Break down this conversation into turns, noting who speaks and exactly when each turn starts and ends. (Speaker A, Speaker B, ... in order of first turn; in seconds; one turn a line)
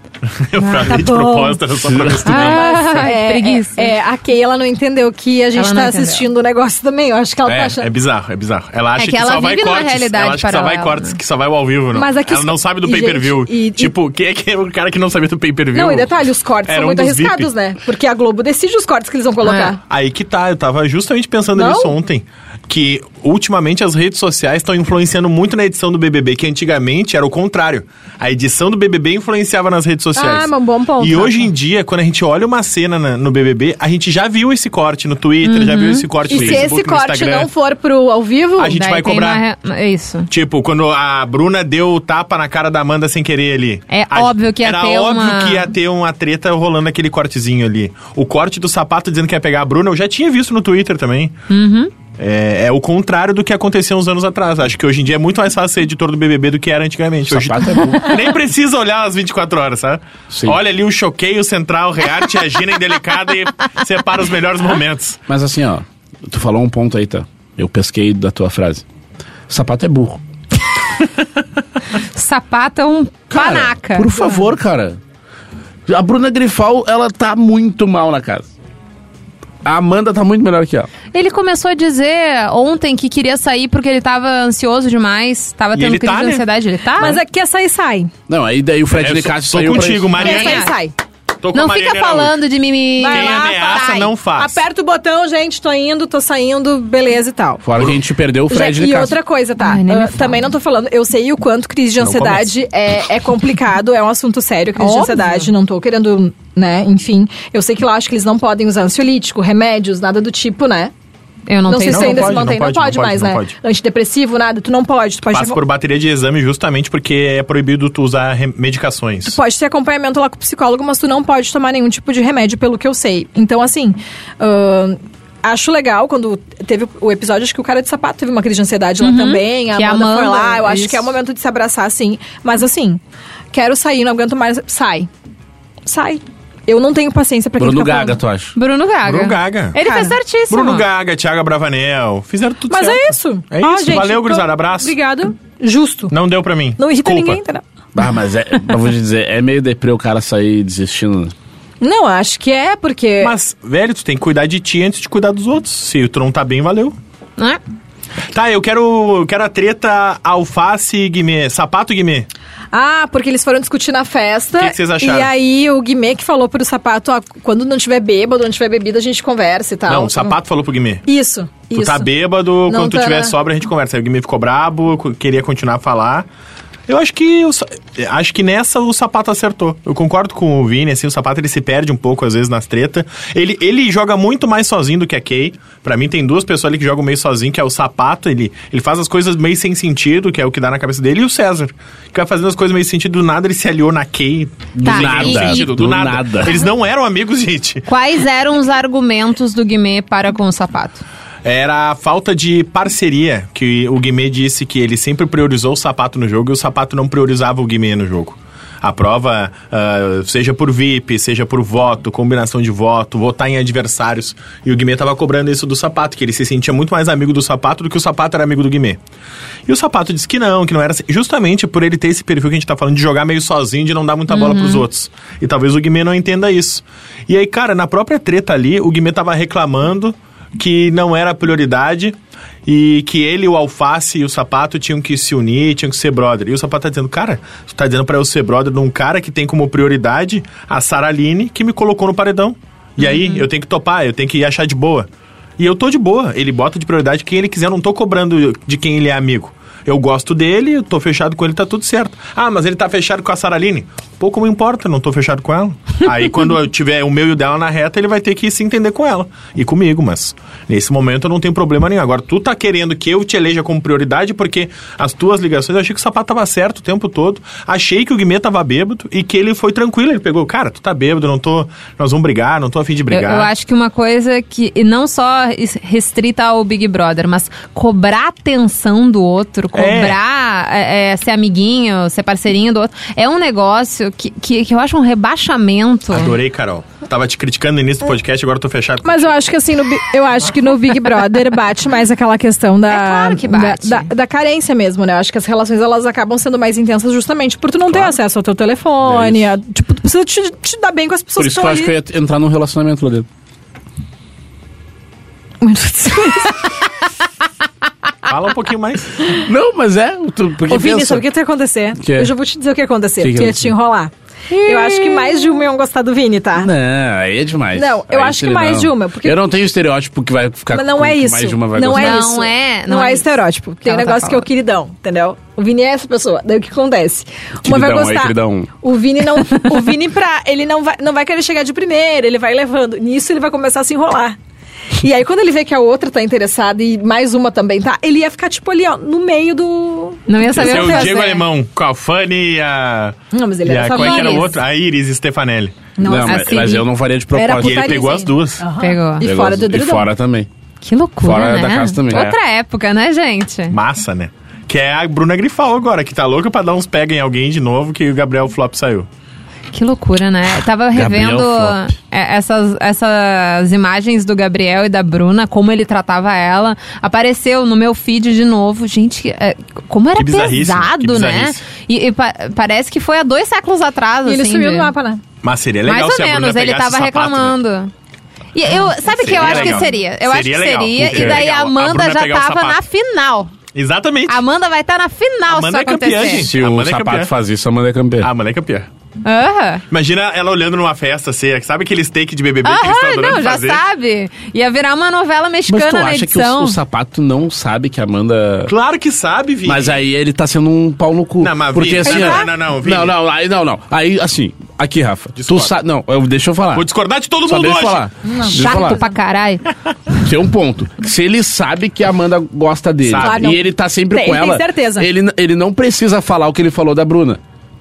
Speaker A: 0.3-3.0
Speaker B: 0.6-1.0
Speaker C: 0.8-1.6
Speaker D: 1.8-2.6
Speaker B: 2.2-3.9
Speaker C: 2.3-7.9
Speaker B: 5.5-6.2
Speaker A: 7.5-16.1
Speaker B: 9.0-11.2
Speaker C: 11.9-13.9
Speaker C: 15.7-19.8
Speaker A: 16.6-17.5
Speaker B: 19.4-19.7
Speaker A: 19.9-37.5
Speaker C: 21.5-21.9
Speaker C: 30.1-31.5
Speaker B: 35.4-36.1
Speaker C: 36.2-38.8
Speaker D: 36.3-36.7
Speaker A: 38.6-39.4
Speaker B: 38.7-40.3
Speaker A: 40.3-51.4
Speaker B: 43.9-45.7
Speaker B: 51.5-51.9
Speaker A: 52.1-65.2
Speaker D: 57.3-58.1
Speaker D: 60.3-60.6
Speaker D: 65.3-68.8
Speaker D: 69.5-70.2
Speaker B: 72.1-74.4
Speaker D: 73.3-75.0
Speaker D: 75.9-78.5
Speaker D: 79.6-80.9
Speaker B: 81.1-87.2
Speaker A: 85.7-86.4
Speaker C: 87.0-88.1
Speaker D: 88.3-90.1
Speaker A: 88.9-90.7
Speaker C: 90.2-90.9
Speaker B: 90.2-90.7
Speaker A: 91.4-92.3
Speaker B: 91.5-94.1
Speaker C: 93.0-97.6
Speaker A: 93.1-94.6
Speaker D: 97.6-99.2
Speaker C: 98.5-110.9
Speaker B: 99.6-100.4
Speaker A: 102.0-102.3
Speaker B: 104.8-105.5
Speaker B: 111.5-112.5
Speaker C: 111.7-115.6
Speaker A: 111.9-113.5
Speaker A: 115.3-119.4
Speaker C: 119.2-133.0
Speaker B: 129.0-131.1
Speaker C: 133.5-135.1
Speaker C: 135.8-138.2
Speaker D: 137.6-138.5
Speaker B: 138.6-140.8
Speaker A: 139.1-139.8
Speaker C: 139.8-140.2
Speaker A: 140.5-144.9
Speaker C: 142.7-146.1
Speaker A: 146.1-147.4
Speaker C: 146.8-147.6
Speaker D: 147.9-151.3
Speaker C: 151.8-153.3
Speaker A: 153.2-157.0
Speaker A: 158.3-162.3
Speaker C: 162.7-170.3
Speaker A: 164.6-165.3
Speaker A: 169.9-171.0
Speaker C: 171.1-172.1
Speaker A: 171.7-176.3
Speaker C: 172.7-173.3
Speaker A: 176.9-197.8
Speaker D: 194.7-196.6
Speaker B: 194.8-195.7
Speaker B: 197.9-201.0
Speaker A: 201.4-219.0
Speaker A: 219.7-273.5
Speaker B: 224.3-224.8
Speaker B: 243.0-243.4
Speaker B: 273.1-286.4
Speaker A: 279.7-280.2
Speaker A: 286.1-289.3
Speaker C: 289.0-301.9
Speaker B: 292.9-294.1
Speaker D: 299.0-299.5
Speaker D: 301.4-303.3
Speaker C: 305.6-306.6
Speaker A: 308.2-309.2
Speaker D: 309.3-311.2
Speaker C: 310.7-316.7
Speaker D: 312.0-312.3
Speaker D: 313.2-313.7
Speaker D: 314.6-315.3
Speaker D: 316.6-322.3
Speaker C: 317.7-319.4
Speaker C: 320.7-334.4
Speaker B: 321.9-323.3
Speaker B: 323.8-324.4
Speaker D: 327.6-328.7
Speaker C: 335.0-341.1
Speaker B: 340.3-341.4
Speaker A: 340.6-345.8
Speaker C: 343.3-344.6
Speaker B: 343.9-344.5
Speaker C: 346.0-346.7
Speaker D: 346.0-348.2
Speaker B: 346.2-346.9
Speaker C: 347.3-350.1
Speaker A: 347.6-348.6
Speaker B: 348.8-349.2
Speaker D: 349.2-350.5
Speaker B: 350.8-353.8
Speaker D: 351.2-352.3
Speaker A: 352.1-352.4
Speaker A: 353.7-359.1
Speaker B: 359.7-374.9
Speaker D: 360.9-361.8
Speaker A: 370.1-371.6
Speaker C: 374.2-375.2
Speaker A: 375.4-377.6
Speaker B: 375.9-377.9
Speaker B: 378.5-383.5
Speaker A: 379.0-382.8
Speaker D: 379.4-379.8
Speaker D: 381.0-381.4
Speaker A: 383.7-384.4
Speaker B: 384.3-386.5
Speaker A: 385.5-387.3
Speaker D: 386.2-388.3
Speaker A: 388.2-388.9
Speaker B: 389.2-389.8
Speaker A: 389.9-393.8
Speaker B: 392.6-396.8
Speaker D: 395.7-398.7
Speaker A: 398.7-399.9
Speaker D: 399.6-406.9
Speaker A: 401.4-403.1
Speaker C: 402.1-402.4
Speaker A: 405.4-405.7
Speaker A: 406.7-408.1
Speaker D: 407.4-409.0
Speaker C: 408.2-409.1
Speaker B: 408.5-409.6
Speaker D: 410.2-417.4
Speaker A: 413.0-413.4
Speaker C: 413.2-415.1